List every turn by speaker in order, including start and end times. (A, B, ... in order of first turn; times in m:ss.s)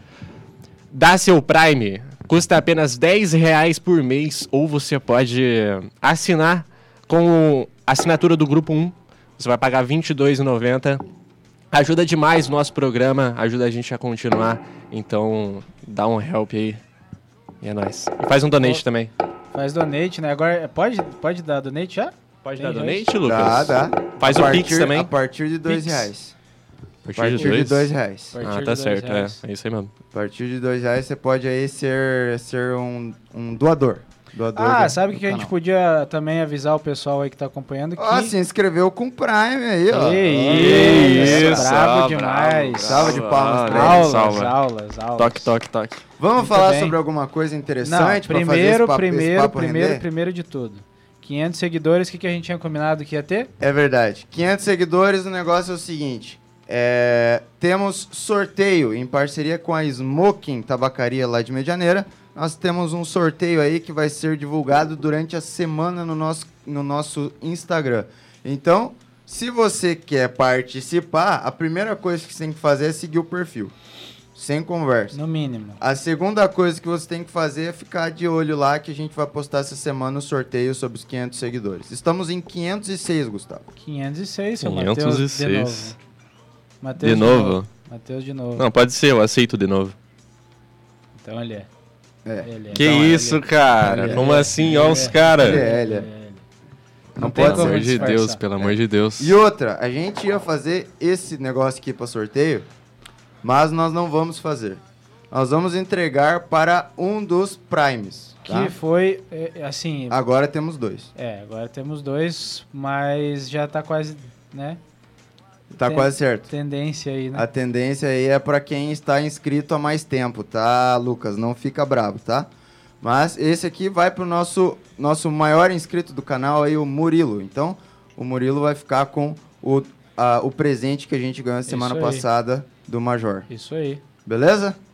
0:00.9-0:11.0 A
0:11.7-0:16.8 A
0:17.6-0:19.1 A
0:19.5-0:23.1 B
0:22.4-0:25.1 A
0:23.2-0:26.3 C
0:25.7-0:26.0 B
0:27.0-0:27.9 A
0:27.2-0:28.4 C
0:28.3-0:29.4 B
0:28.4-0:29.9 A
0:30.1-0:35.5 C
0:34.5-0:38.4 B
0:38.0-0:41.8 C
0:39.9-0:45.5 B
0:40.4-0:44.6 A
0:42.8-0:44.4 C
0:45.2-0:46.0 A
0:46.2-0:50.0 C
0:46.4-0:47.0 B
0:47.8-0:53.5 B
0:53.6-1:13.7 C
1:14.3-1:15.2 C
1:15.1-1:15.8 B
1:15.8-1:23.7 C
1:23.8-1:26.0 B
1:24.6-1:25.9 A
1:26.8-1:28.6 B
1:27.0-1:27.7 A
1:28.6-1:29.9 A
1:31.2-1:31.7 B
1:32.2-1:33.0 C
1:32.4-1:36.4 B
1:32.7-1:35.6 A
1:33.8-1:34.4 C
1:35.3-1:36.1 C
1:37.2-1:42.7 C
1:37.2-1:38.4 B
1:37.3-1:39.4 A
1:43.4-1:48.7 C
1:48.4-1:50.2 B
1:50.1-1:51.1 C
1:51.1-1:54.8 B
1:55.7-1:56.5 C
1:55.8-1:57.4 B
1:57.3-2:02.5 C
2:03.0-2:13.5 C
2:11.7-2:12.2 B
2:13.5-2:14.0 B
2:14.2-2:14.8 C